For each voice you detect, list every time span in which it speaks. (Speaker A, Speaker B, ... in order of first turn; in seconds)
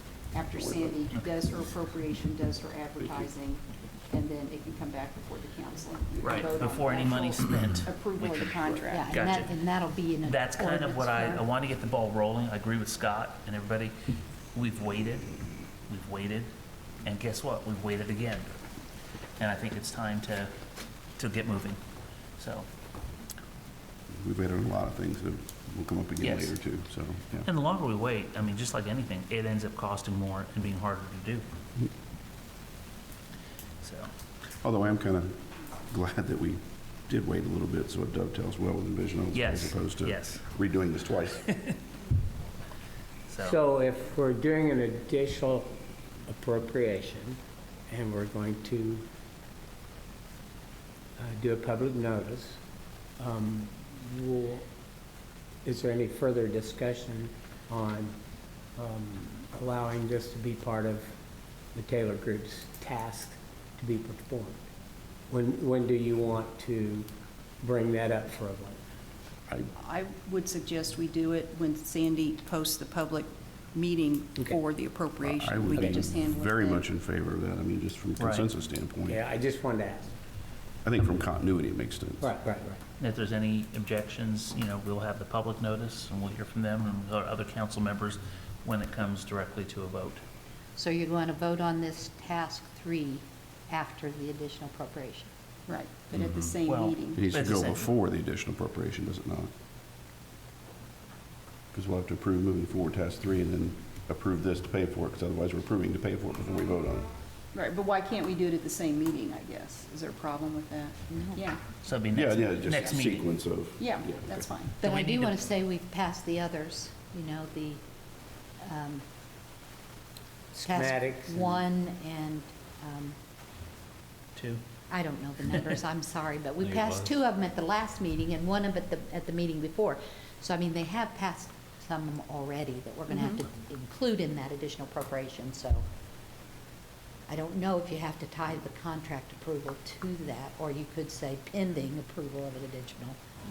Speaker A: 0.3-9.1, 69.8-76.8, 95.7-97.2, 107.5-111.6, 112.7-113.1, 113.8-114.8, 133.1-133.4
Speaker B: 0.6-1.0, 3.0-3.2, 24.1-27.5, 34.6-41.5, 75.2-79.2, 80.8-82.3, 97.1-99.5, 101.7-107.1, 112.1-114.5
Speaker C: 6.2-8.5, 9.1-9.5, 10.2-13.9, 14.5-16.5, 17.0-18.6, 19.4-20.5, 21.2-21.8, 22.4-22.7, 26.2-26.6, 27.4-31.5, 33.8-34.1, 39.3-40.5, 41.5-41.7, 43.3-43.6, 78.2-78.5, 83.0-90.2, 96.7-97.9, 111.8-113.3, 114.8-115.5, 124.4-124.6
Speaker D: 8.9-11.4, 90.8-95.3, 111.1-111.4, 114.8-117.8, 118.6-119.0, 120.5-123.2, 124.9-135.9, 137.3-143.2
Speaker E: 43.4-49.1, 51.2-52.6, 53.2-54.7, 55.6-58.2, 58.8-61.2, 61.7-64.7, 65.3-68.8, 79.0-80.2, 82.2-82.8, 120.7-121.6